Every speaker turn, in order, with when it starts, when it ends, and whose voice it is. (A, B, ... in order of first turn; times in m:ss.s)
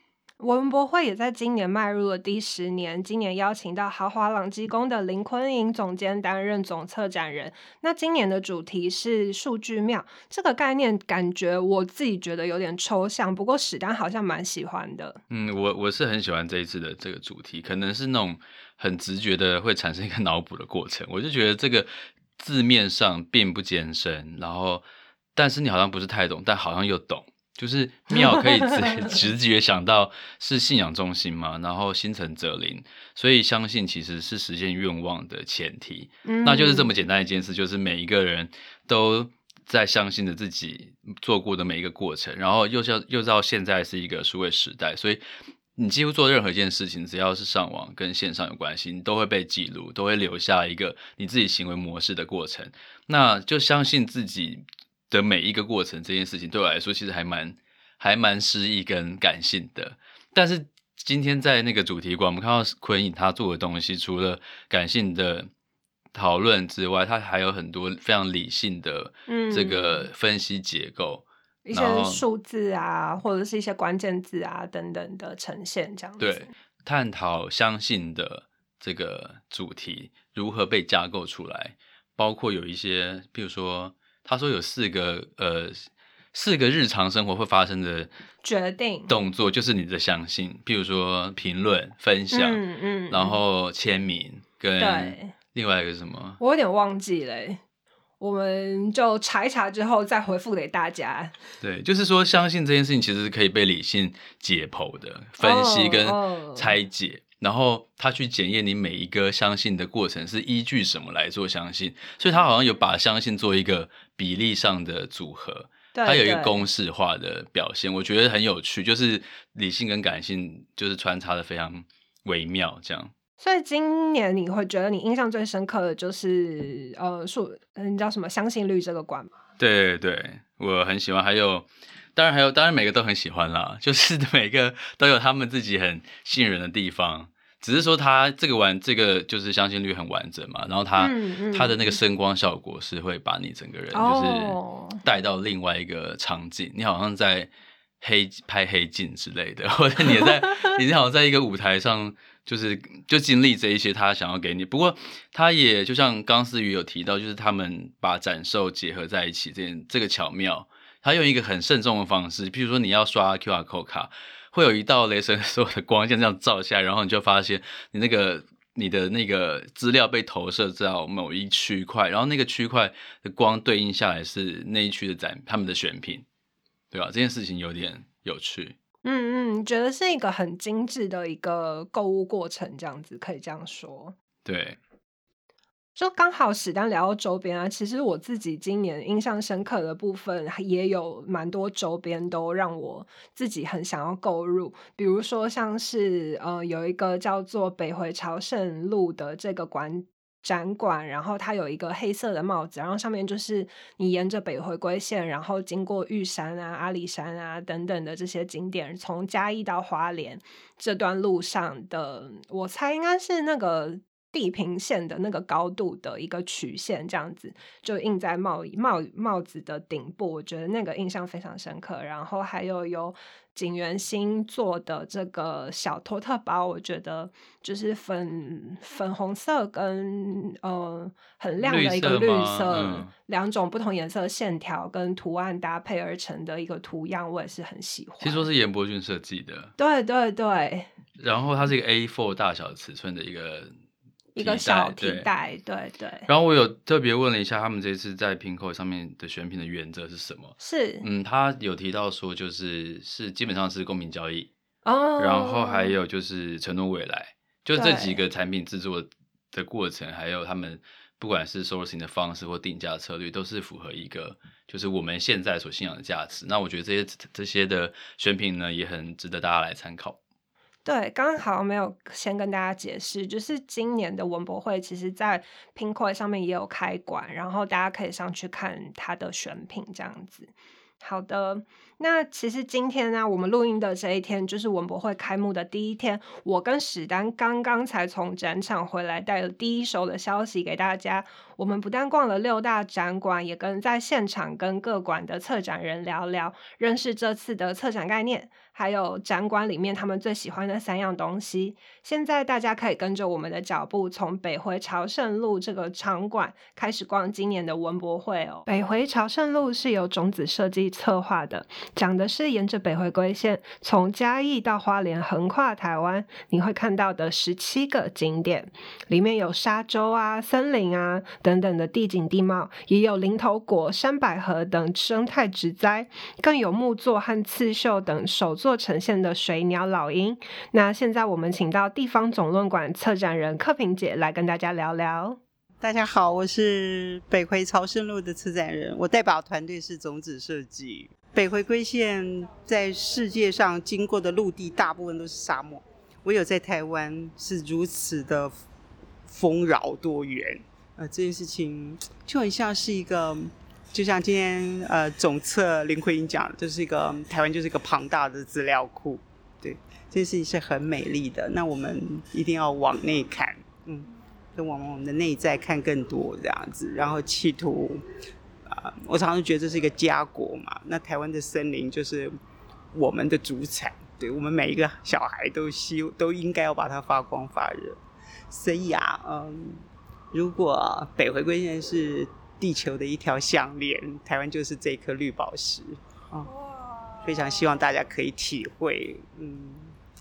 0:00.4-0:15.2 A
0:15.3-0:24.8 B
0:25.4-0:45.2 B
0:36.2-0:36.9 A
0:45.8-1:05.5 B
1:06.1-1:12.2 B
1:09.3-1:10.1 A
1:11.6-1:16.5 A
1:16.2-1:28.1 B
1:28.4-1:29.1 A
1:29.1-1:36.4 B
1:32.3-1:33.4 A
1:34.8-1:35.3 A
1:36.4-1:37.6 A
1:38.2-1:41.3 A
1:41.6-2:03.1 B
1:45.4-1:46.8 A
1:55.9-1:56.6 A
2:03.4-2:09.3 A
2:09.6-2:27.5 B
2:21.0-2:22.0 A
2:23.9-2:25.0 A
2:28.0-2:56.2 B
2:56.9-2:58.8 B
2:59.0-3:04.2 A
3:04.4-3:04.8 B
3:06.0-3:58.5 A
3:51.6-3:53.1 B
3:58.2-3:59.7 B
3:59.8-4:00.9 A
4:01.2-4:03.7 B
4:04.4-4:06.3 A
4:04.4-4:05.3 B
4:06.3-4:14.5 B
4:10.6-4:11.0 A
4:14.8-4:15.9 A
4:15.2-4:30.2 B
4:17.8-4:18.2 A
4:30.8-5:35.4 A
5:35.8-5:48.5 C
5:49.3-6:08.0 C
6:08.7-6:12.3 C
6:12.9-6:18.0 C
6:18.5-6:19.8 C
6:20.3-6:26.5 C
6:27.2-6:29.9 C